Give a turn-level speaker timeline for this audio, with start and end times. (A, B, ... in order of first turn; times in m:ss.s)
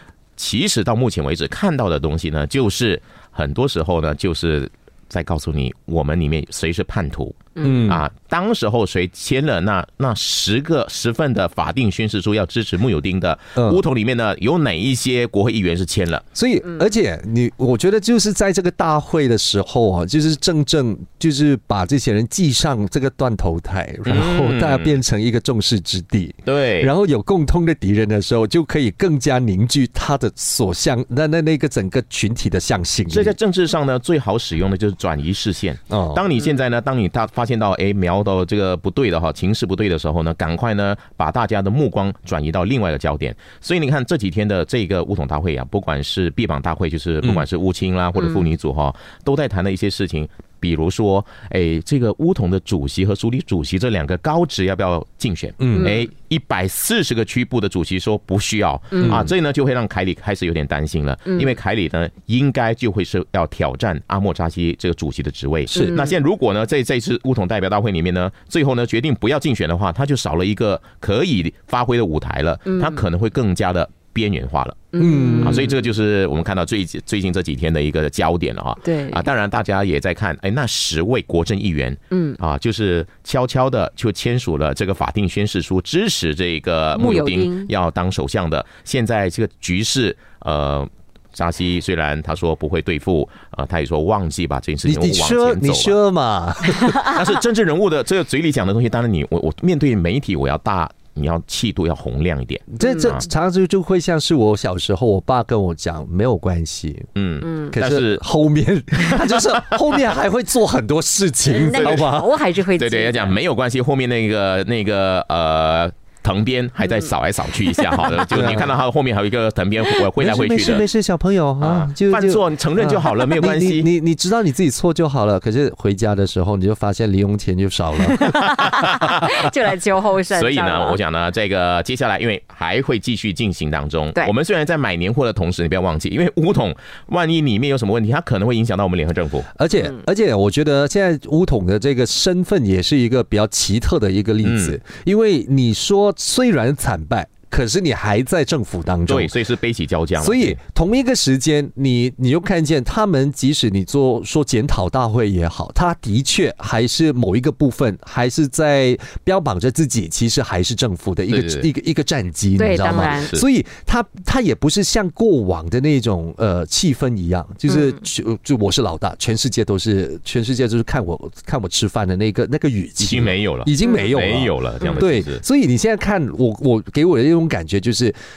0:00.4-0:16.2 A
0:07.6-0:07.9 B
0:07.6-0:08.0 C
0:13.6-0:13.8 C
0:16.4-0:33.4 C
0:24.1-0:25.0 A
0:26.4-0:26.9 A
0:33.1-1:14.9 A
0:35.9-0:36.2 C
0:55.6-0:56.0 C
0:59.0-0:59.2 B
0:59.0-0:59.3 C
1:01.3-1:01.5 B
1:05.7-1:06.0 C
1:05.7-1:06.1 B
1:12.7-1:13.0 B
1:14.9-1:15.7 B
1:15.0-1:15.7 C
1:15.4-1:36.0 A
1:18.8-1:19.3 B
1:22.1-1:22.4 B
1:27.0-1:27.7 B
1:34.8-1:37.1 C
1:37.0-1:43.3 A
1:42.7-1:47.1 C
1:42.8-1:43.2 B
1:47.2-1:48.2 A
1:47.4-1:47.7 B
1:47.7-1:52.3 C
1:49.1-1:49.6 A
1:51.5-1:53.4 B
1:51.5-1:52.1 A
1:52.8-2:00.9 A
1:58.3-1:58.8 C
2:00.2-2:08.2 C
2:01.6-2:03.9 A
2:08.1-2:11.0 B
2:08.4-2:09.3 A
2:10.3-2:19.5 A
2:19.6-2:29.4 C
2:24.4-2:24.8 A
2:29.1-2:30.6 A
2:30.2-2:58.2 C
2:41.3-2:41.7 A
2:42.6-2:43.3 B
2:42.7-2:43.4 A
2:47.7-2:48.0 B
2:53.0-2:55.4 A
2:53.8-2:54.1 B